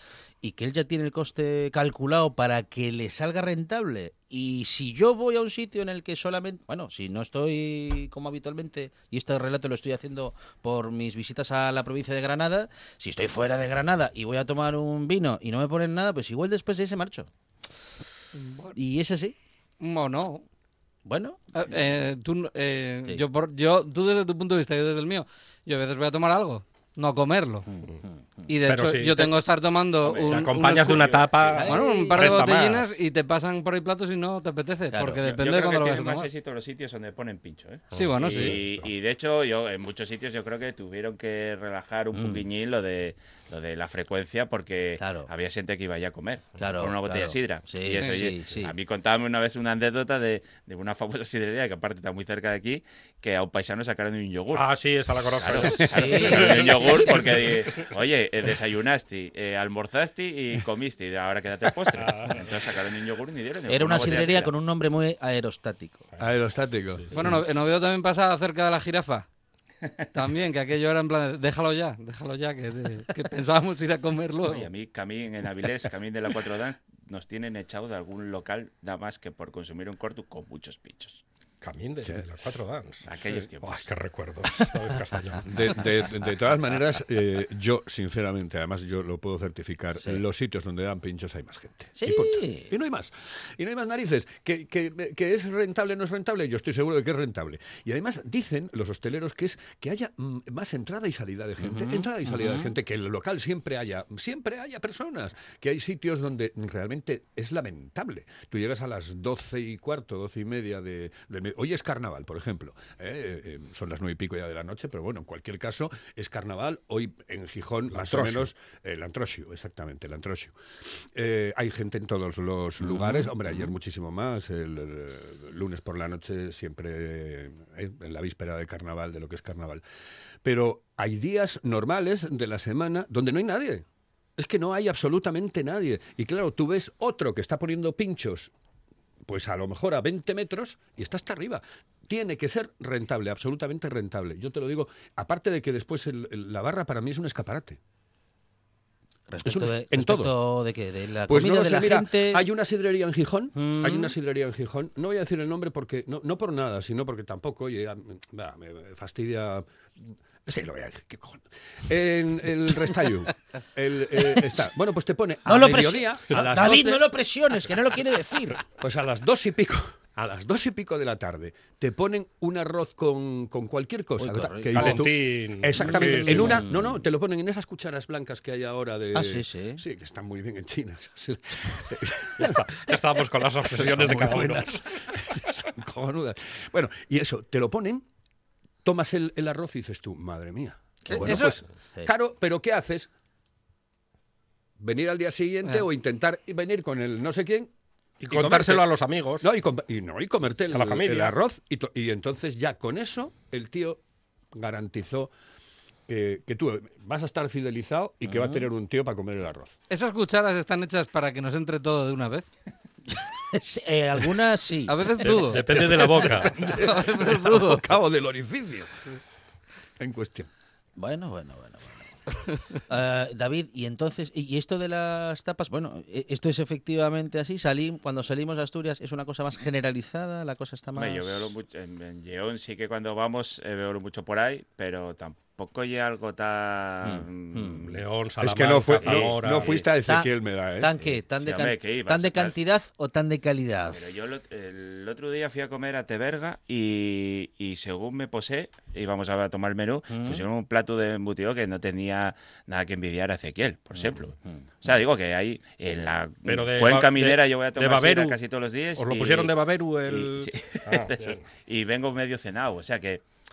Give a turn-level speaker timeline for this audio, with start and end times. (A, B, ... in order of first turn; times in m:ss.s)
0:00.4-0:17.3 A
0:18.4-0:18.8 B
0:18.8-0:19.4 A
0:19.8-0:20.4 B
0:21.0-0:21.4 A
0:21.5-0:27.6 B
0:27.7-0:28.5 A
0:28.5-0:36.3 B
0:28.6-0:29.4 C
0:30.0-0:31.1 D
0:30.1-0:33.0 C
0:31.5-0:32.4 A
0:34.9-0:35.2 A
0:35.2-1:04.5 D
0:37.9-0:38.9 C
0:37.9-0:38.6 B
0:42.1-0:42.4 A
0:45.0-0:45.3 A
0:46.6-0:48.7 A
0:54.5-0:57.9 C
0:55.8-0:57.3 A
1:01.9-1:02.5 C
1:03.7-1:06.1 A
1:06.2-1:07.4 E
1:07.0-1:07.2 C
1:07.1-1:09.2 B
1:10.1-1:14.7 B
1:14.4-1:21.2 D
1:21.6-1:25.5 C
1:23.1-1:23.9 D
1:25.4-2:00.5 E
1:32.0-1:32.7 A
1:41.6-1:42.7 A
1:57.9-1:58.5 C
2:01.1-2:09.8 E
2:02.8-2:03.3 A
2:10.4-2:13.9 E
2:14.4-2:18.5 E
2:19.2-2:27.8 E
2:29.3-2:32.5 A
2:29.4-2:30.4 E
2:31.3-2:47.1 E
2:33.6-2:34.1 A
2:45.5-2:48.6 A
2:48.8-3:02.7 E
2:54.2-2:55.1 A
2:54.8-2:56.6 C
2:55.8-2:57.0 A
2:59.1-2:59.8 A
3:02.4-3:05.4 C
3:03.6-3:08.0 E
3:08.8-3:13.1 E
3:11.0-3:11.4 A
3:11.1-3:11.6 B
3:14.8-3:17.7 E
3:18.2-3:19.5 C
3:18.3-3:18.9 E
3:19.4-3:24.0 E
3:20.7-3:21.4 C
3:24.5-3:25.3 E
3:26.1-3:29.8 E
3:28.3-3:28.6 A
3:29.9-3:32.5 B
3:33.1-3:35.5 A
3:34.9-3:36.2 B
3:35.2-3:36.7 C
3:35.9-3:39.0 E
3:36.7-3:37.4 B
3:37.2-3:37.8 A
3:40.0-3:40.5 E
3:41.0-3:42.2 A
3:42.9-3:51.5 A
3:50.9-3:58.0 D
3:57.0-3:57.8 A
3:57.9-3:59.8 C
3:58.4-4:01.0 E
3:59.0-3:59.8 D
4:00.0-4:04.0 A
4:01.4-4:02.5 D
4:03.9-4:19.5 D
4:10.1-4:10.4 A
4:14.0-4:14.6 A
4:16.5-4:18.4 C
4:19.0-4:21.4 C
4:20.0-4:23.2 D